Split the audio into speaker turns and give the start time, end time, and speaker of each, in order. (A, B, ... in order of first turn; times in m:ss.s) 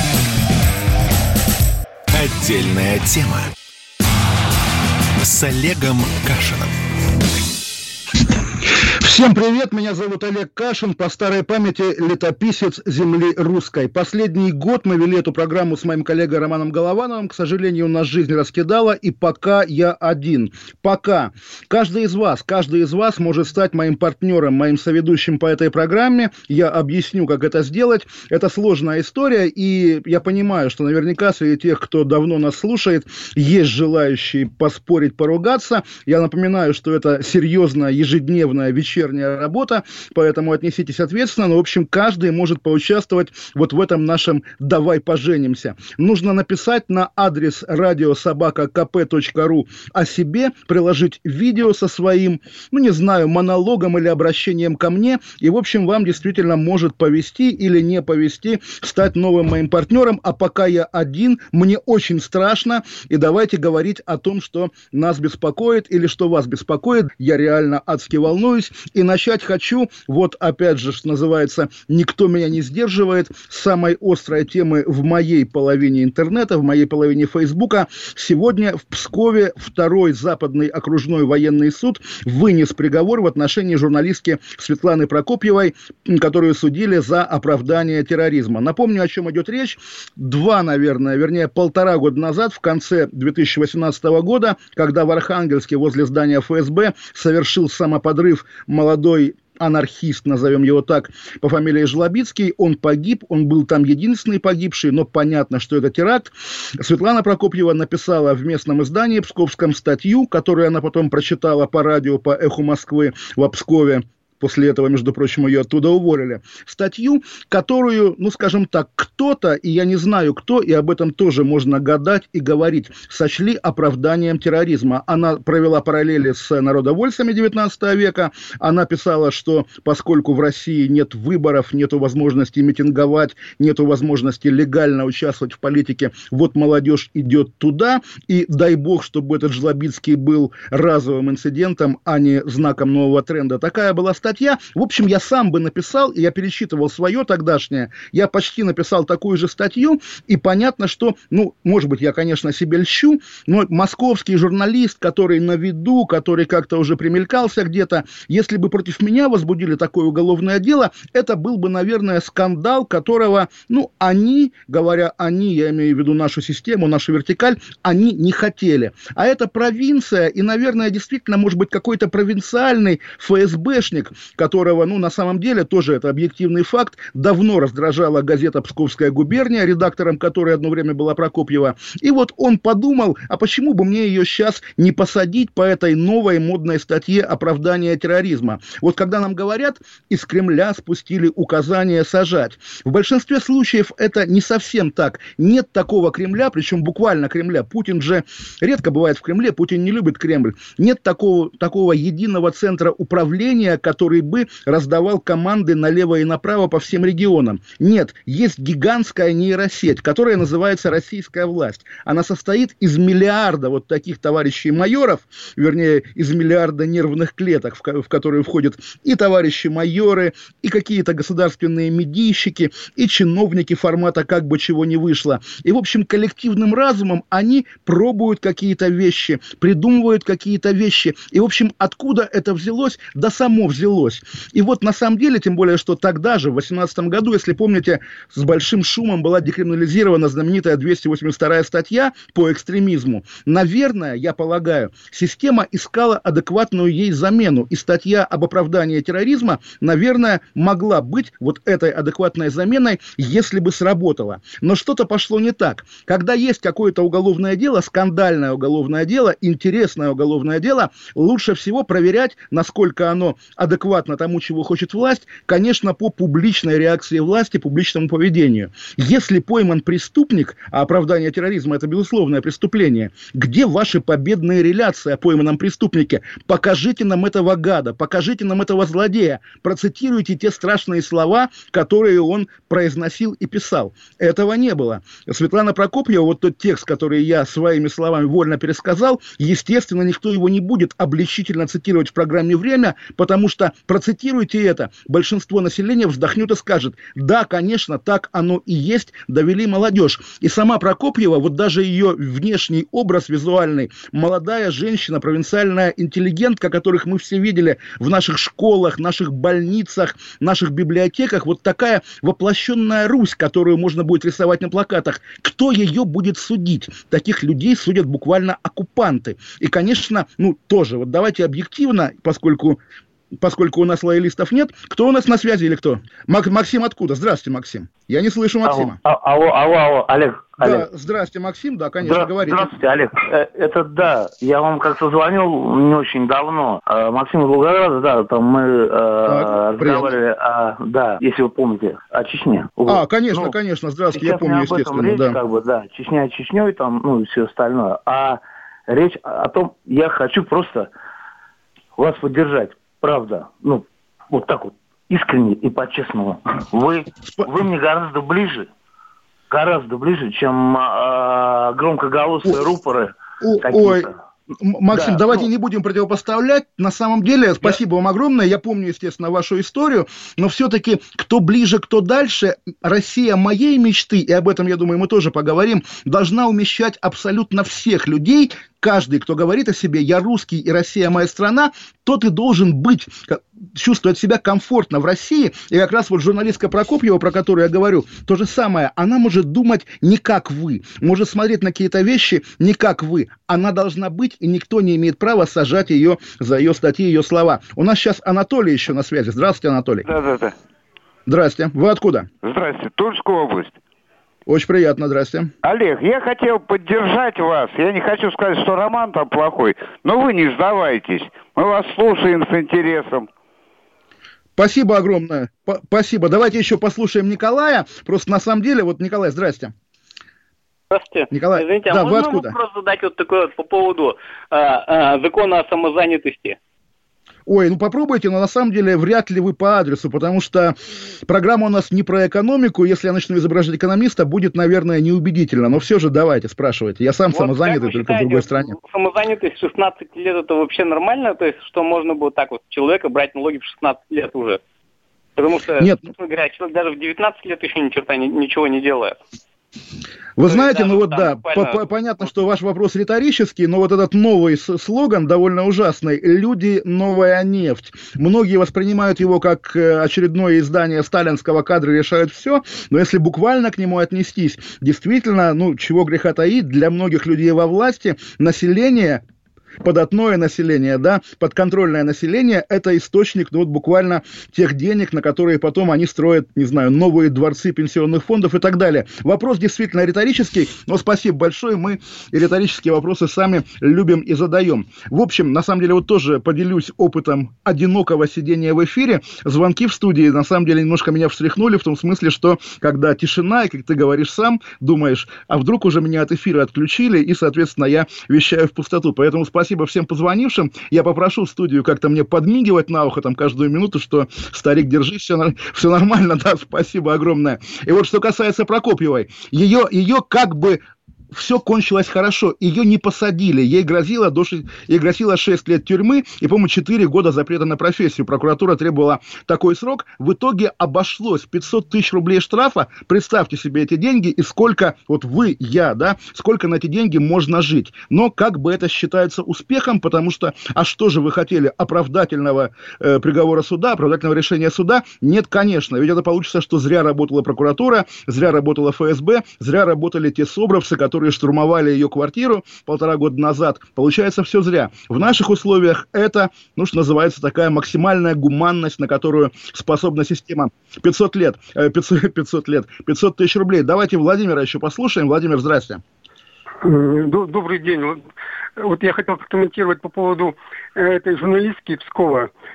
0:02.1-0:03.5 A
0:05.2-0:06.8 A
0:08.9-5:22.8 B
5:23.4-5:29.0 B
5:28.6-5:30.9 C
5:30.6-5:32.7 B
5:32.0-5:43.6 C
5:39.3-5:40.1 B
5:42.9-5:45.4 B
5:44.1-5:50.9 C
5:52.0-5:58.7 C
5:59.5-6:04.2 C
6:03.4-6:04.1 B
6:04.6-6:40.1 B
6:04.9-6:05.5 C
6:40.1-6:40.5 D
6:41.3-6:42.3 B
6:42.4-6:43.7 D
6:44.5-6:45.5 B
6:45.6-6:53.3 D
6:54.6-6:59.7 B
7:00.9-7:06.6 E
7:01.3-7:02.6 B
7:07.5-7:10.8 B
7:11.3-7:18.7 B
7:17.3-7:24.6 E
7:25.4-7:29.2 E
7:30.4-7:49.2 B
7:30.4-7:32.2 E
7:49.8-9:16.0 B
9:16.8-9:18.2 F
9:18.8-9:22.5 F